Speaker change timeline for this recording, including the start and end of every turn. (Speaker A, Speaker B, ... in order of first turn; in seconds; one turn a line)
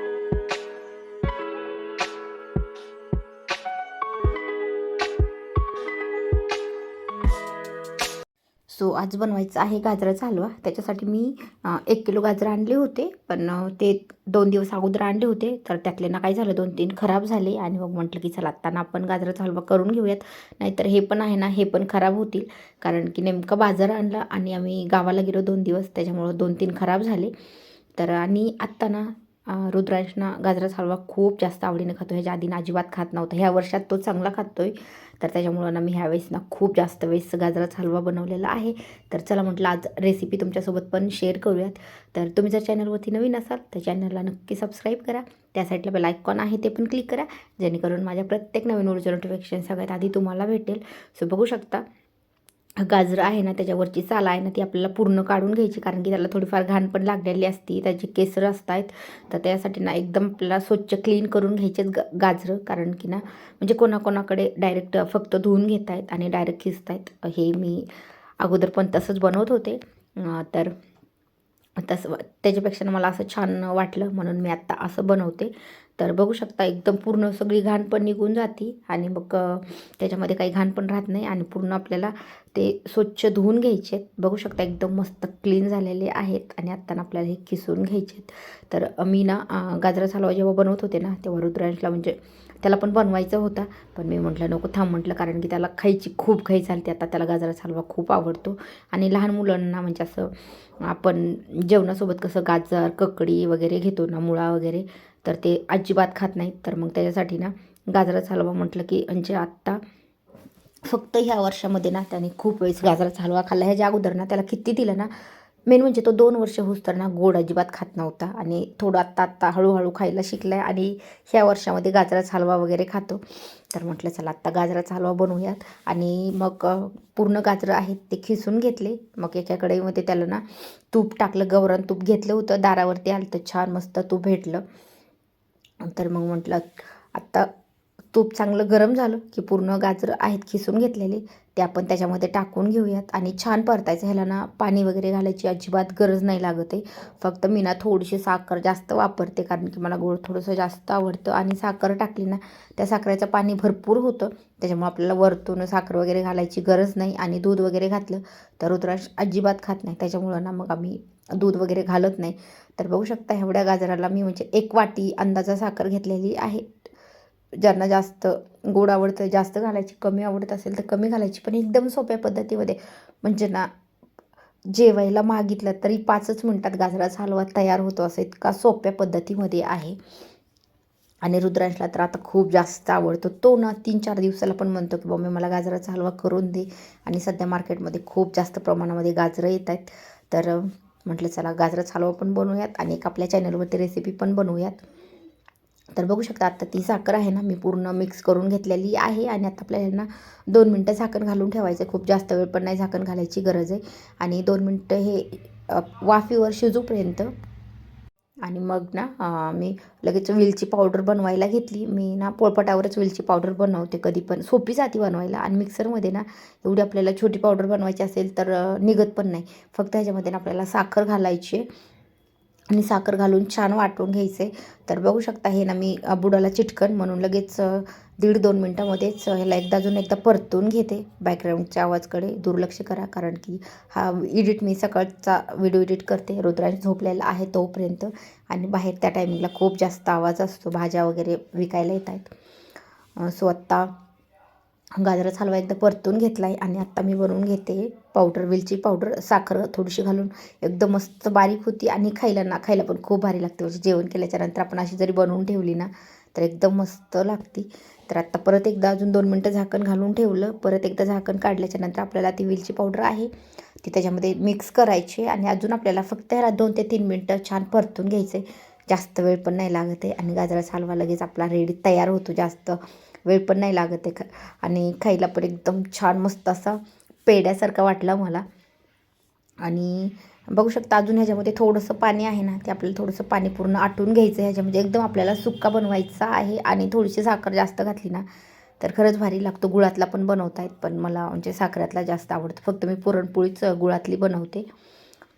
Speaker A: 8.7-27.3
Speaker A: 27.9-51.8
Speaker A: 52.8-70.7
Speaker A: 71.8-109.8
Speaker A: 110.8-134.6
Speaker A: 135.8-137.5
Speaker A: 138.1-166.9
Speaker A: 167.6-173.7
Speaker A: 174.7-180.0
Speaker A: 181.2-194.8
Speaker A: 195.9-207.3
Speaker A: 208.4-221.7
Speaker A: 222.7-242.3
Speaker A: 243.2-243.9
Speaker A: 244.9-278.4
Speaker A: 279.6-288.2
Speaker A: 288.8-294.7